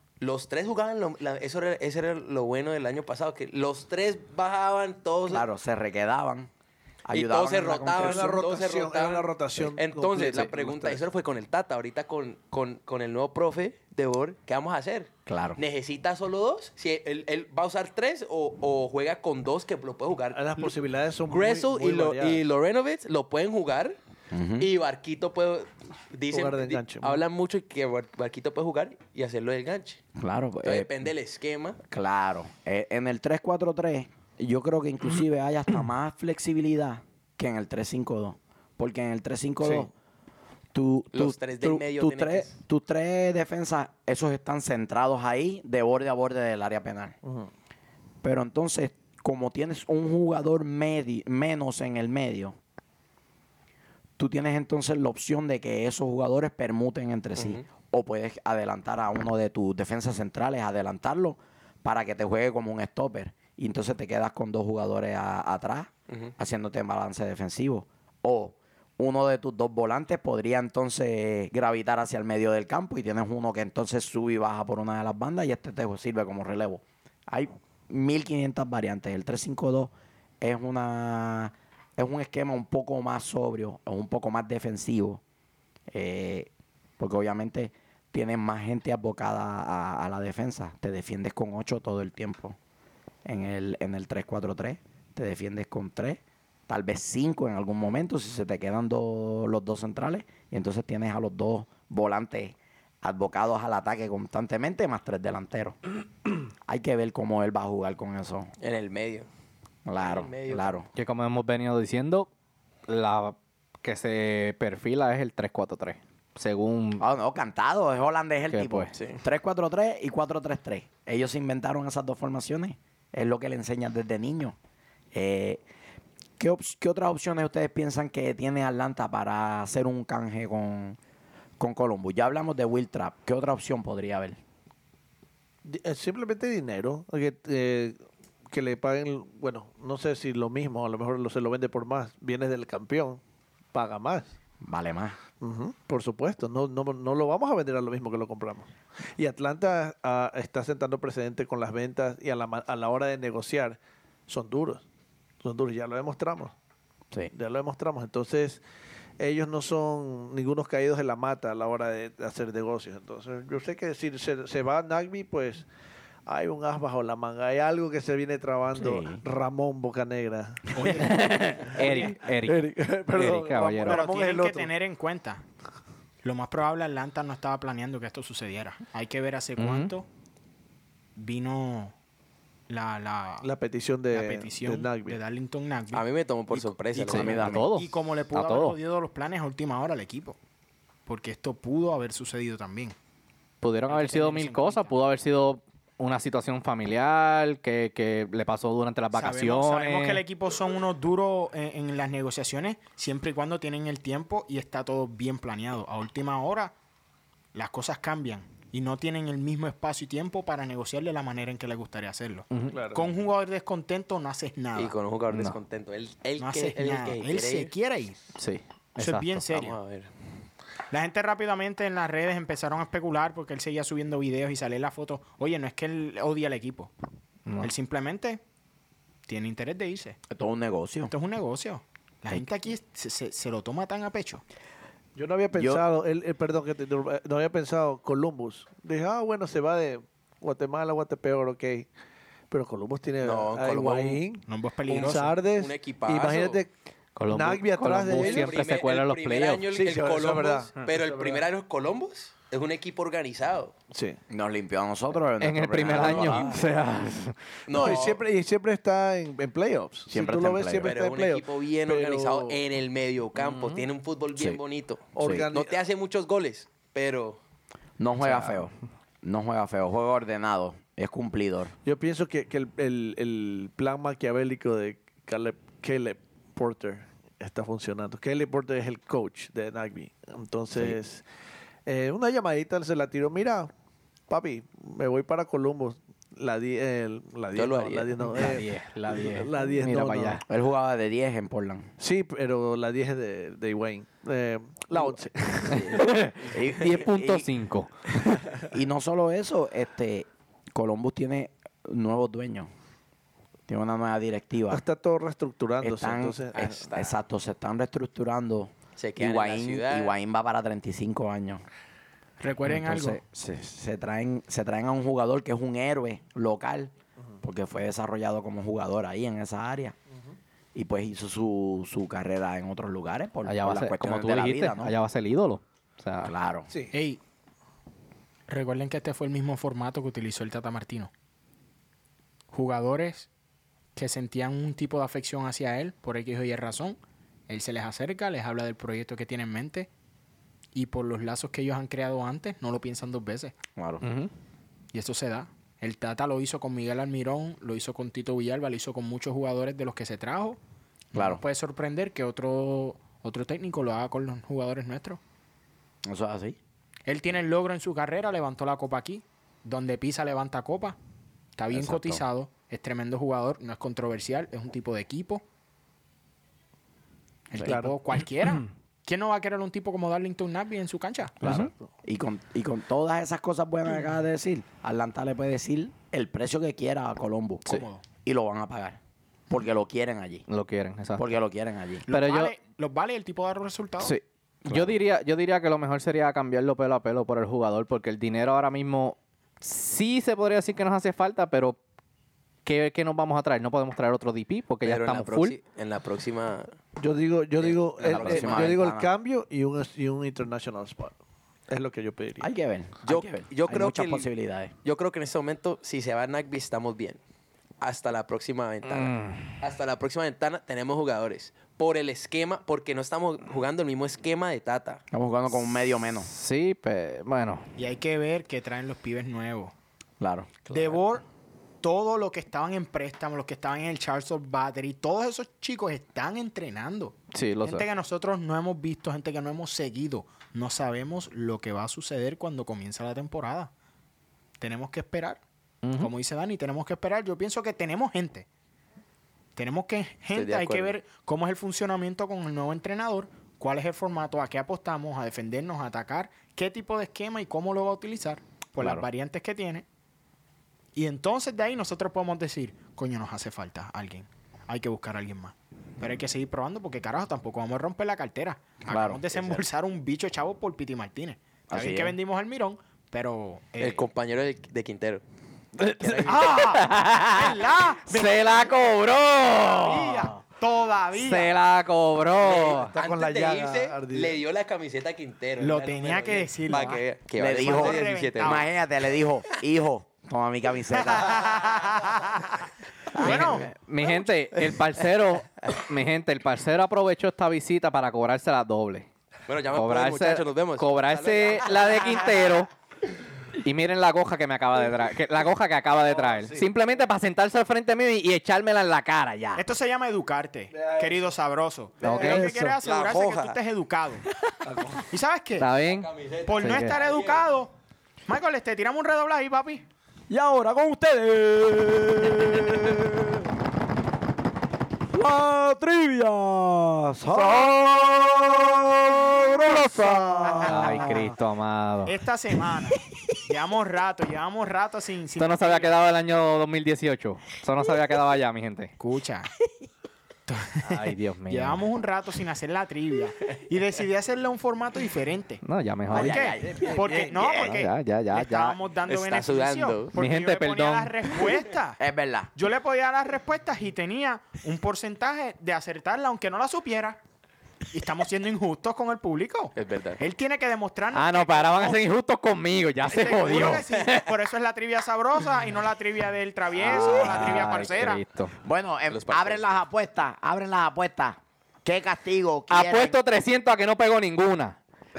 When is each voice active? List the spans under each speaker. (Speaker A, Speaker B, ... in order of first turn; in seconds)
Speaker A: 0.2-5.5, 7.1-20.7, 21.3-24.0, 24.6-30.0, 30.6-31.8, 41.1-42.6, 57.4-57.6, 108.6-109.3, 110.0-110.8, 118.9-119.2, 185.9-187.5, 214.8-217.7, 219.5-220.1, 243.2-244.2, 244.9-246.6, 248.1-253.7, 256.2-256.5, 257.7-258.2, 260.8-267.4, 287.5-288.1, 306.5-307.2, 309.0-310.1, 394.8-396.7, 397.6-398.8, 403.1-404.3, 404.8-407.2, 407.8-415.0, 440.3-440.9, 463.8-465.2, 465.9-466.7, 472.4-478.7, 489.5-492.3, 502.8-503.6, 505.8-507.4, 539.1-540.1, 549.8-550.2, 559.1-559.6
Speaker B: 5.3-6.5, 7.1-8.4, 15.3-15.6, 24.3-24.7, 30.2-30.9, 31.9-39.9, 40.7-47.2, 48.2-52.6, 54.2-85.2, 85.9-92.6, 93.2-105.8, 106.7-108.5, 109.9-110.9, 117.0-124.6, 125.1-125.6, 126.4-131.0, 131.6-134.4, 144.6-145.2, 168.8-169.2, 187.1-187.7, 230.3-231.1, 235.6-235.8, 254.3-256.5, 260.1-260.9, 265.2-265.5, 268.0-271.7, 290.4-291.9, 296.4-297.5, 298.6-302.7, 303.7-304.8, 305.8-311.6, 312.7-319.9, 320.8-324.9, 326.2-326.7, 343.8-344.0, 351.1-351.4, 356.1-356.6, 361.7-362.2, 371.4-379.0, 379.5-380.4, 381.2-382.1, 384.6-385.0, 398.0-399.1, 402.4-404.7, 415.1-416.3, 420.2-420.6, 458.9-459.2, 461.7-462.2, 477.4-481.4, 510.3-513.5, 515.1-521.3, 536.1-536.9, 542.0-542.5, 558.6-563.2
Speaker C: 7.9-11.0, 20.3-22.4, 26.3-27.2, 39.6-39.9, 47.2-47.5, 135.6-138.0, 138.5-143.2, 143.7-144.3, 145.4-154.8, 155.4-156.5, 157.3-158.6, 159.2-165.7, 166.3-170.8, 171.7-174.7, 183.4-185.2, 212.7-213.1, 235.2-241.9, 242.5-246.7, 247.3-248.6, 249.7-251.4, 253.9-254.2, 255.9-256.5, 257.7-262.6, 265.1-265.7, 271.9-281.2, 281.9-283.7, 284.3-290.4, 292.0-296.0, 304.7-306.8, 367.6-367.9, 397.0-401.1, 401.7-402.5, 472.7-474.4, 496.1-496.6, 500.8-501.2, 502.0-502.8, 504.6-505.0, 536.6-537.5
Speaker D: 111.0-112.3, 112.9-117.0, 118.5-118.9, 171.0-174.1, 179.6-179.9, 187.1-188.8, 193.6-200.2, 212.5-212.8, 215.3-215.6, 218.4-219.6, 227.5-227.7, 247.2-249.7, 255.4-257.4, 288.3-290.4, 295.7-298.5, 323.5-326.3, 344.0-344.3, 371.4-371.7, 380.5-381.3, 382.1-382.6, 384.0-391.8, 392.6-395.6, 408.9-409.6, 416.3-417.7, 427.3-427.9, 435.8-436.1, 465.8-470.3, 471.1-472.9, 483.2-489.1, 489.8-492.7, 493.6-499.6, 502.0-502.5, 505.6-507.0, 520.6-522.1, 525.4-528.9, 530.8-531.8, 535.6-536.5, 537.4-538.8, 540.2-541.5, 551.1-554.3, 556.8-558.5, 562.7-564.8
Speaker E: 170.7-172.1, 173.8-175.4, 176.2-180.1, 181.2-181.9, 182.7-183.5, 184.1-186.1, 187.4-190.4, 191.1-192.9, 193.9-194.9, 199.1-206.7, 207.5-214.9, 216.4-218.2, 219.0-219.8, 220.9-226.9, 227.6-228.4, 229.3-230.2, 231.1-234.4, 244.5-245.3, 312.4-313.2, 326.9-327.2, 328.5-331.1, 332.5-333.3, 333.9-339.9, 340.7-343.6, 344.9-350.6, 351.1-355.2, 357.1-361.0, 361.6-365.4, 367.5-371.4, 377.7-378.0, 382.1-384.2, 417.8-419.7, 420.7-421.2, 421.8-433.7, 434.6-435.4, 436.0-438.5, 439.6-449.9, 451.0-464.1, 466.3-468.8, 469.6-471.5, 475.6-478.7, 481.1-482.6, 483.2-483.7, 499.6-504.2, 505.1-505.7, 506.5-507.7, 508.3-509.9, 520.4-521.3, 522.0-525.9, 529.0-529.5, 530.5-542.0, 542.6-547.2, 547.9-552.0, 553.0-558.2